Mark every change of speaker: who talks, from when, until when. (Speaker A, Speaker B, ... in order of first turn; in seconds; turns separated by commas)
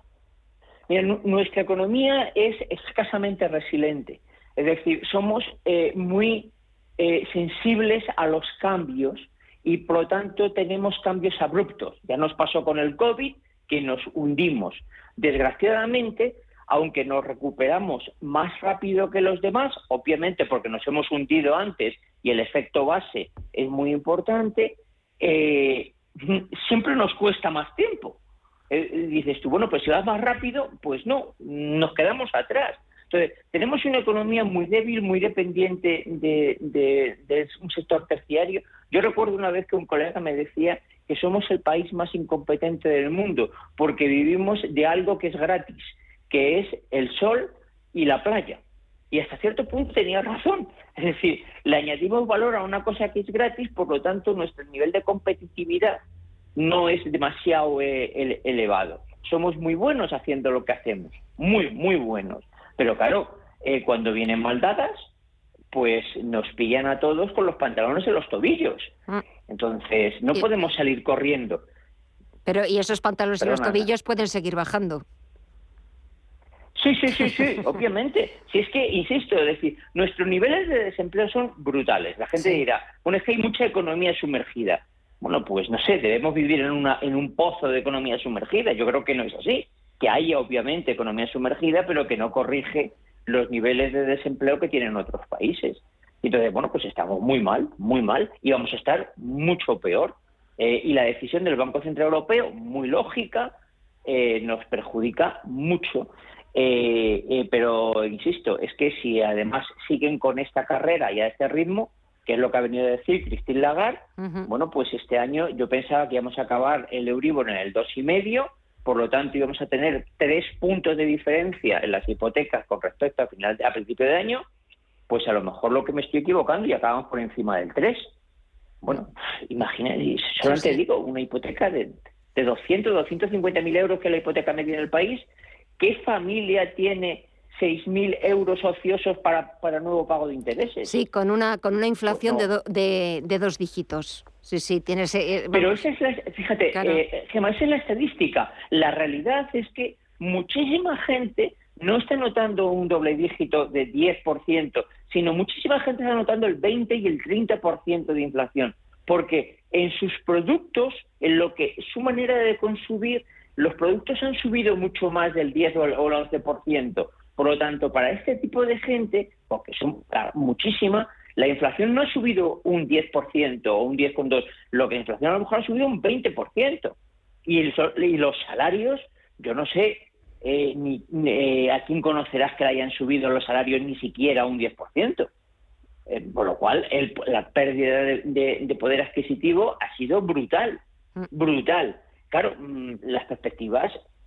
Speaker A: 0.9-28.2, Speaker A: 28.7-56.0, Speaker A: 56.5-65.1, Speaker A: 65.7-68.9, Speaker A: 69.5-71.6, Speaker B: 72.5-75.0, Speaker A: 73.4-73.9, Speaker A: 76.7-103.5, Speaker A: 104.0-124.5, Speaker B: 114.2-114.5, Speaker A: 125.1-128.1, Speaker A: 128.8-135.2, Speaker B: 130.4-130.8, Speaker A: 135.8-140.9, Speaker B: 140.8-145.8, Speaker A: 142.1-142.4, Speaker A: 145.5-176.9, Speaker B: 146.7-147.0, Speaker A: 177.4-185.3, Speaker A: 186.1-194.0